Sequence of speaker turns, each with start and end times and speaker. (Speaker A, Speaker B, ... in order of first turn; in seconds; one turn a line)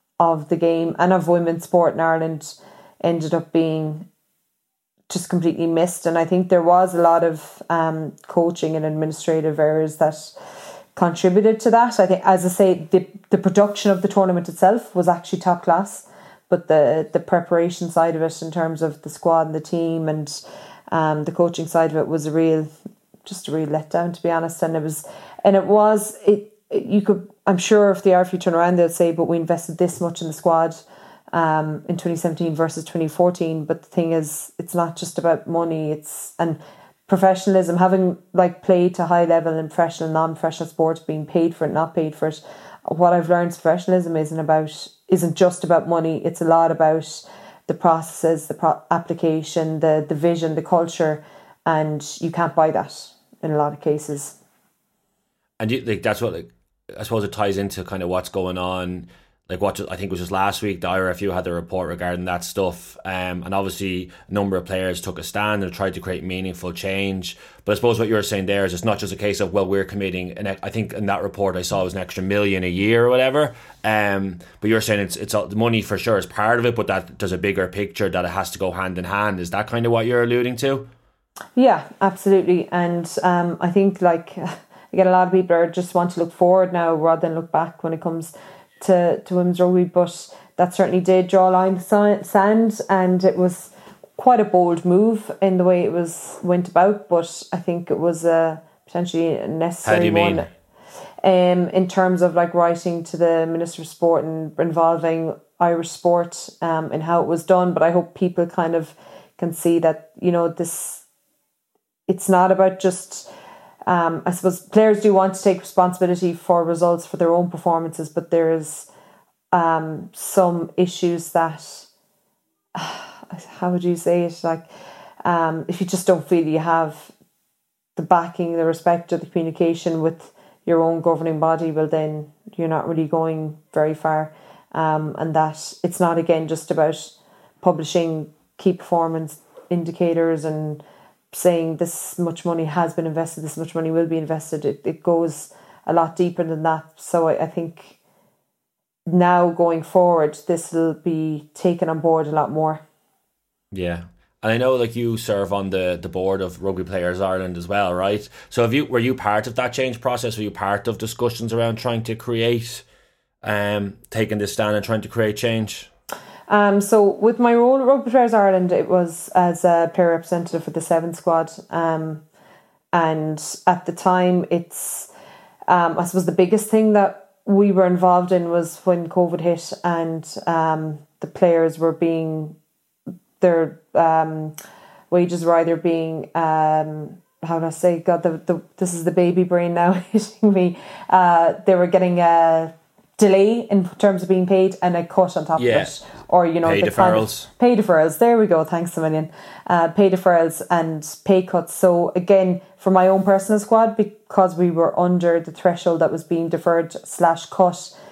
Speaker A: 0.2-4.0
Speaker A: 5.1-10.3
Speaker A: 10.9-20.4
Speaker A: 20.9-22.7
Speaker A: 23.2-54.4
Speaker B: 55.6-80.9
Speaker A: 81.5-100.5
Speaker B: 99.8-100.5
Speaker A: 101.2-111.0
Speaker A: 112.1-113.3
Speaker A: 113.9-118.9
Speaker A: 119.5-121.9
Speaker A: 122.7-124.7
Speaker A: 125.2-127.1
Speaker A: 128.0-140.8
Speaker A: 141.3-148.0
Speaker A: 149.1-152.8
Speaker B: 153.7-162.8
Speaker B: 163.4-165.9
Speaker A: 166.5-172.2
Speaker A: 172.9-175.1
Speaker A: 175.7-182.5
Speaker A: 183.4-184.5
Speaker A: 185.1-207.9
Speaker B: 195.6-195.9
Speaker B: 196.6-197.5